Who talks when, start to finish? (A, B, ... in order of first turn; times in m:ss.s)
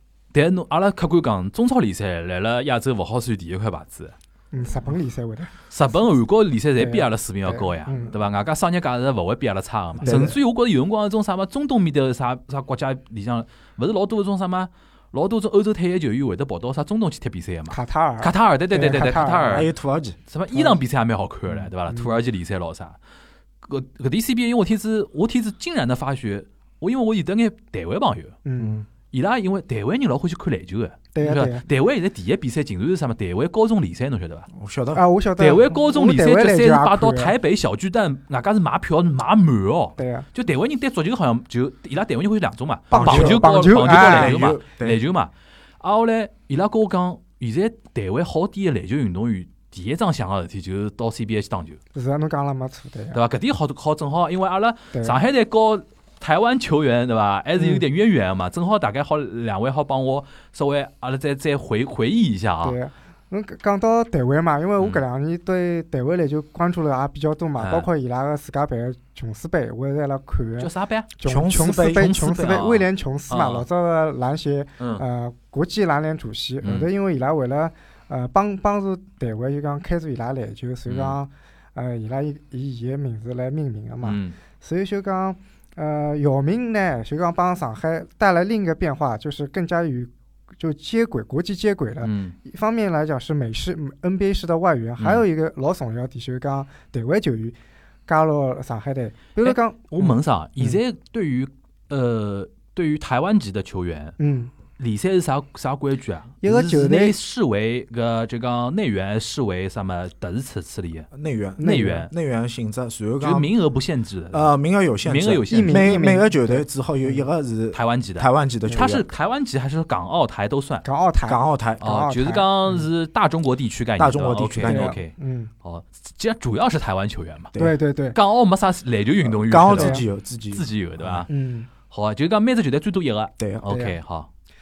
0:00.3-0:04.1 A
0:04.5-0:05.5 B
0:05.7-0:19.7 A
0:06.8-0:08.1 B
0:10.0-0:10.4 C
0:17.7-0:19.7 B
0:19.5-0:20.2 C
0:20.3-0:23.0 A
0:20.5-0:20.8 B
0:21.9-0:22.2 B
0:23.6-0:28.4 A
0:28.5-0:28.8 B
0:28.6-0:28.9 C
0:29.1-0:34.5 A
0:31.1-0:31.6 B
0:34.5-0:35.0 C
0:35.0-0:37.3 B
0:35.4-0:51.8 A
0:40.0-0:40.3 B
0:42.9-0:45.0 C
0:42.9-0:44.4 B
0:51.9-0:53.2 B
0:53.1-1:02.8 A
0:54.9-0:55.2 B
0:57.6-0:57.8 B
1:02.6-1:37.6 B
1:07.6-1:07.9 A
1:10.6-1:13.7 A
1:11.2-1:12.1 C
1:14.8-1:15.0 A
1:16.6-1:16.9 A
1:20.9-1:21.2 A
1:24.0-1:24.4 A
1:32.0-1:32.4 A
1:35.0-1:35.2 A
1:38.1-1:40.8 B
1:39.4-1:44.2 A
1:44.2-1:44.5 B
1:44.8-1:51.1 A
1:46.4-1:47.2 B
1:51.1-1:53.5 C
1:51.6-1:52.1 B
1:53.2-1:54.5 A
1:54.3-1:59.1 C
1:55.0-1:56.1 A
1:55.5-1:57.2 B
1:57.7-2:00.9 A
2:00.8-2:02.5 B
2:01.2-2:01.9 C
2:01.8-2:07.5 A
2:04.0-2:05.0 C
2:04.6-2:05.5 B
2:07.6-2:08.2 B
2:08.1-2:10.0 A
2:09.2-2:11.3 C
2:09.7-2:10.0 B
2:10.5-2:11.3 A
2:11.3-2:11.7 B
2:11.9-2:14.3 A
2:13.4-2:13.7 C
2:13.7-2:14.0 B